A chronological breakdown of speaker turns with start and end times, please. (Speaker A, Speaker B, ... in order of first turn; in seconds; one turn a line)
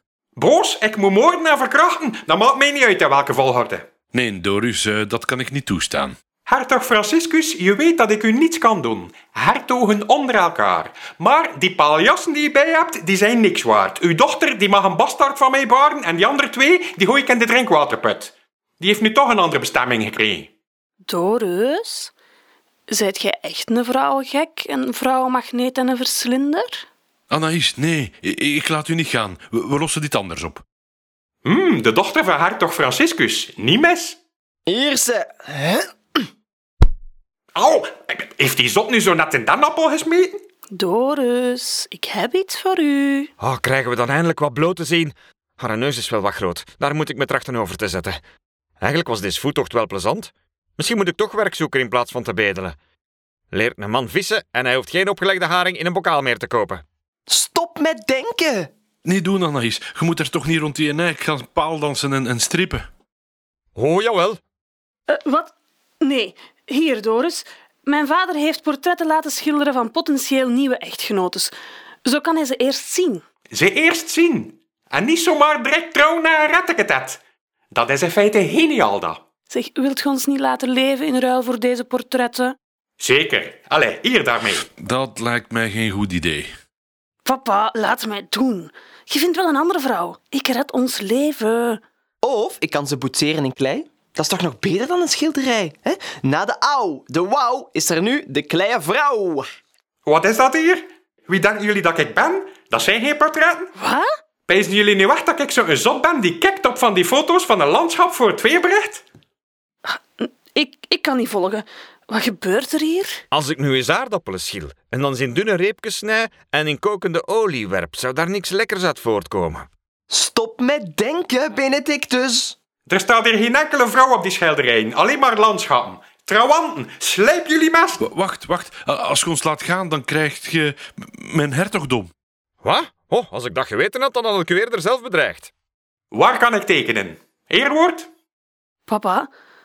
Speaker A: 0.3-3.8
Speaker B: 4.1-6.2
Speaker A: 6.5-20.5
Speaker C: 21.1-22.1
Speaker C: 22.9-26.8
Speaker B: 27.3-30.6
Speaker A: 31.4-34.2
Speaker D: 34.7-36.3
Speaker A: 37.5-40.4
Speaker C: 40.7-43.3
Speaker E: 43.4-48.2
Speaker E: 48.8-52.7
Speaker E: 53.5-56.8
Speaker D: 57.3-58.7
Speaker B: 59.0-62.9
Speaker E: 63.8-64.4
Speaker C: 65.1-71.5
Speaker C: 72.0-73.2
Speaker A: 73.5-77.2
Speaker A: 77.7-79.2
Speaker C: 79.5-82.5
Speaker A: 83.0-84.7
Speaker B: 84.7-86.5
Speaker C: 87.2-91.8
Speaker D: 92.2-99.5
Speaker A: 100.0-103.7
Speaker C: 103.8-104.1
Speaker A: 104.5-109.0
Speaker C: 109.8-113.2
Speaker E: 113.3-119.7
Speaker D: 120.1-122.5
Speaker A: 122.9-128.0
Speaker B: 128.0-132.1
Speaker E: 132.6-135.5
Speaker A: 136.1-138.1
Speaker C: 138.9-139.3